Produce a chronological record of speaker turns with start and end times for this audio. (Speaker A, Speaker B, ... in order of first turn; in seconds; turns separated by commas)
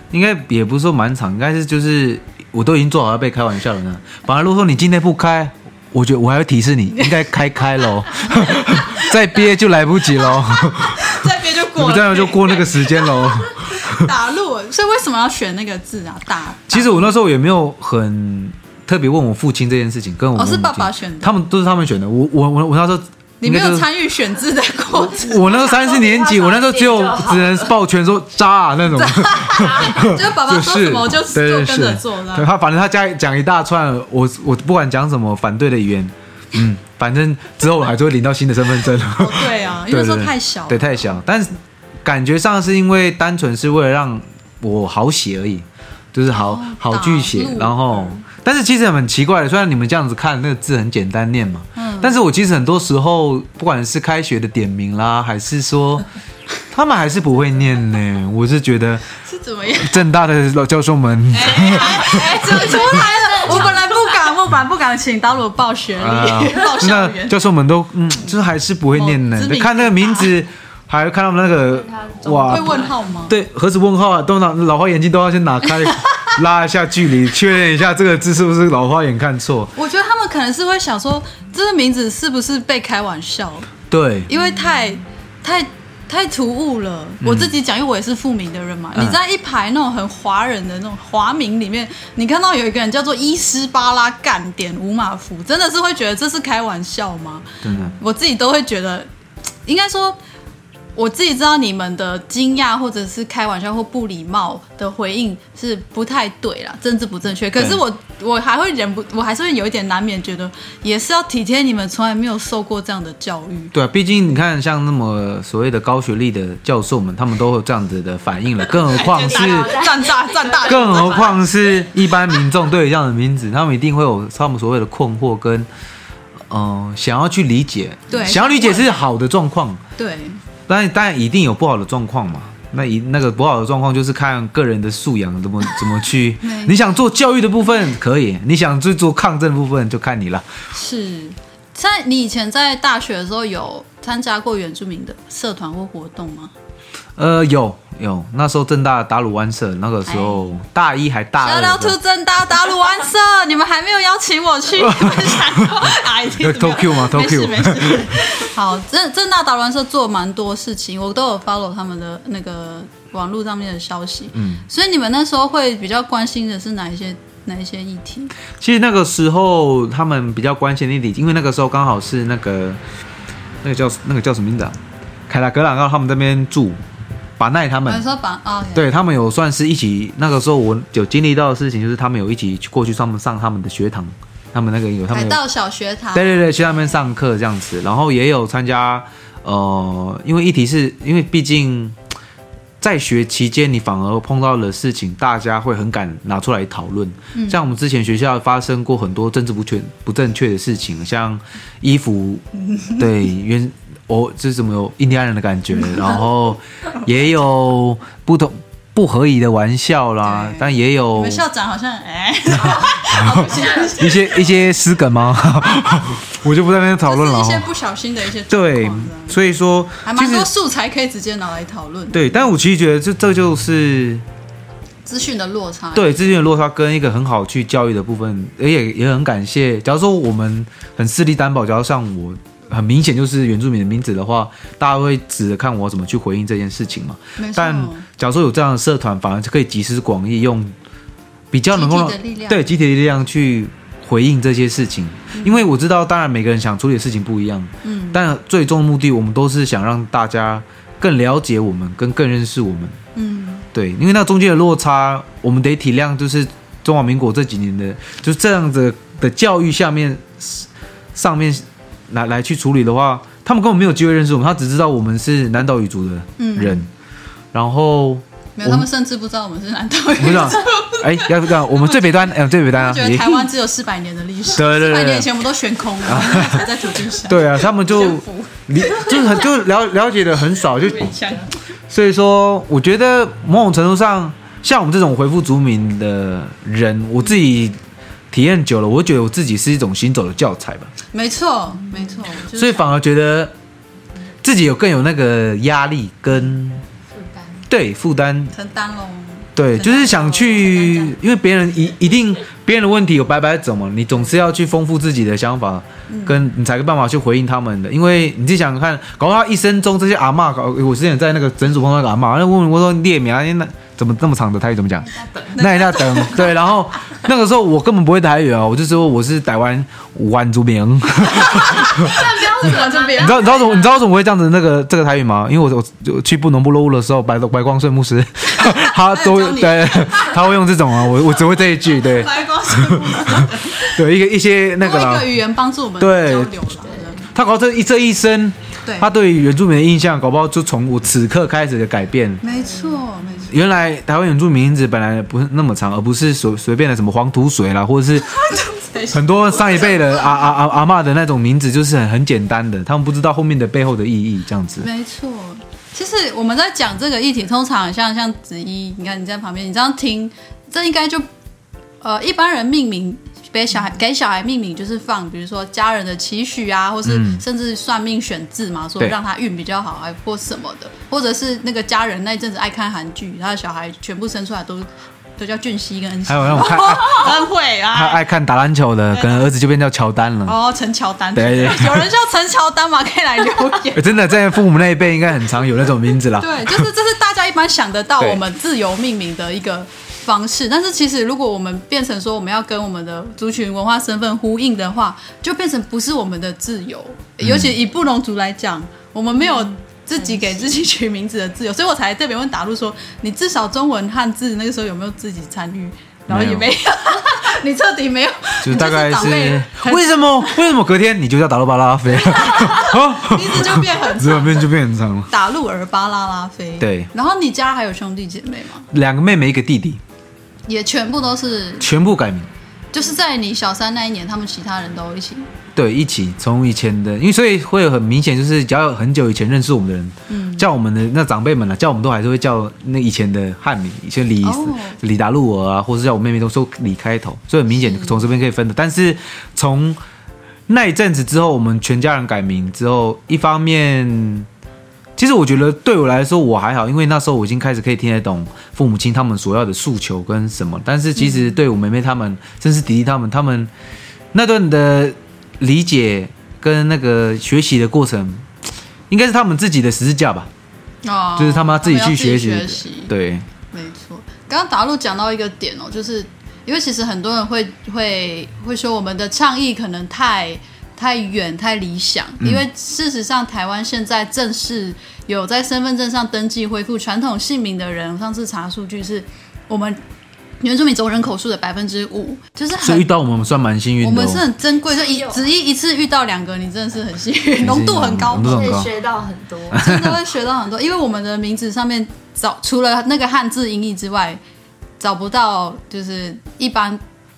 Speaker A: 0.1-11.2, Speaker B: 8.3-9.1, Speaker B: 10.3-17.1, Speaker A: 11.7-14.1, Speaker A: 16.7-23.9, Speaker B: 20.4-21.3, Speaker B: 23.4-25.7, Speaker A: 24.9-56.1, Speaker C: 26.0-27.5, Speaker B: 28.9-32.5, Speaker B: 39.1-41.0, Speaker B: 46.3-48.2, Speaker B: 51.8-52.1, Speaker A: 56.7-59.1, Speaker B: 59.2-60.0, Speaker A: 59.8-63.7, Speaker B: 61.3-67.4, Speaker A: 66.0-79.7, Speaker B: 68.9-70.3, Speaker B: 72.2-73.3, Speaker B: 79.8-83.7, Speaker A: 83.9-84.3, Speaker B: 84.3-99.1, Speaker A: 87.2-87.5, Speaker A: 97.6-98.0, Speaker B: 99.7-100.2, Speaker B: 101.0-113.7, Speaker A: 113.7-119.9, Speaker B: 118.8-121.3, Speaker A: 120.5-125.7, Speaker A: 126.5-129.8, Speaker B: 128.1-128.9, Speaker B: 130.0-130.4, Speaker A: 130.7-140.5, Speaker B: 136.4-136.8, Speaker B: 140.7-146.5, Speaker A: 147.2-152.0, Speaker B: 150.1-150.6, Speaker B: 151.4-168.3, Speaker A: 154.8-158.2, Speaker A: 164.3-164.6, Speaker A: 168.6-172.8, Speaker A: 173.6-174.8, Speaker A: 175.3-176.8, Speaker A: 177.4-178.1, Speaker B: 177.9-178.9, Speaker A: 178.7-185.4, Speaker B: 185.1-187.0, Speaker A: 186.1-192.0, Speaker A: 192.8-202.4, Speaker B: 197.3-197.7, Speaker B: 202.7-203.0, Speaker A: 203.0-211.4, Speaker B: 210.2-214.6, Speaker A: 212.6-217.7, Speaker B: 217.1-219.4, Speaker A: 218.5-220.5, Speaker B: 220.0-222.5, Speaker A: 222.1-224.2, Speaker B: 225.1-226.2, Speaker A: 225.9-240.8, Speaker B: 237.4-238.1, Speaker A: 241.5-253.0, Speaker B: 241.7-242.7, Speaker B: 245.3-245.6, Speaker B: 247.8-248.2, Speaker B: 253.2-253.7, Speaker A: 253.7-266.9, Speaker B: 266.4-266.9, Speaker A: 267.5-268.9, Speaker B: 268.6-279.5, Speaker A: 270.2-273.5, Speaker A: 274.5-275.3, Speaker A: 276.1-276.7, Speaker A: 277.2-281.2, Speaker B: 280.9-281.5, Speaker A: 281.9-287.8, Speaker A: 288.3-290.9, Speaker B: 291.1-292.9, Speaker A: 292.5-293.5, Speaker A: 294.4-296.8, Speaker A: 297.7-298.5, Speaker B: 298.5-301.2, Speaker A: 299.6-335.3, Speaker B: 306.1-306.5, Speaker B: 315.4-316.6, Speaker B: 321.3-323.8, Speaker B: 328.4-330.5, Speaker B: 331.9-333.9, Speaker B: 334.8-337.3, Speaker A: 336.0-336.7, Speaker A: 337.3-342.4, Speaker B: 342.4-343.5, Speaker A: 343.5-354.9, Speaker B: 348.3-350.1, Speaker B: 354.8-361.3, Speaker B: 362.0-378.2, Speaker A: 367.1-367.4, Speaker A: 376.3-377.4, Speaker A: 377.9-380.6, Speaker B: 379.1-379.4, Speaker B: 380.4-384.3, Speaker A: 381.3-382.1, Speaker A: 383.9-386.9, Speaker B: 386.4-410.7, Speaker A: 397.4-397.8, Speaker A: 406.3-406.7, Speaker A: 408.6-415.3, Speaker B: 412.2-414.7, Speaker B: 415.3-418.9, Speaker A: 416.8-417.1, Speaker A: 418.9-420.0, Speaker B: 420.7-421.9, Speaker A: 421.8-422.5, Speaker B: 422.9-425.5, Speaker A: 425.8-440.0, Speaker B: 430.3-430.7, Speaker B: 434.4-435.0, Speaker B: 437.8-438.2, Speaker A: 440.7-444.5, Speaker A: 445.2-453.7, Speaker B: 451.2-451.5, Speaker A: 454.3-458.5, Speaker A: 459.1-460.5, Speaker B: 461.0-463.1, Speaker A: 461.4-463.5, Speaker B: 463.7-480.0, Speaker B: 480.6-483.1, Speaker A: 482.8-484.4, Speaker B: 484.0-488.9, Speaker A: 487.6-488.9, Speaker C: 488.4-489.8, Speaker A: 489.7-490.2, Speaker B: 489.7-494.4, Speaker B: 495.0-497.0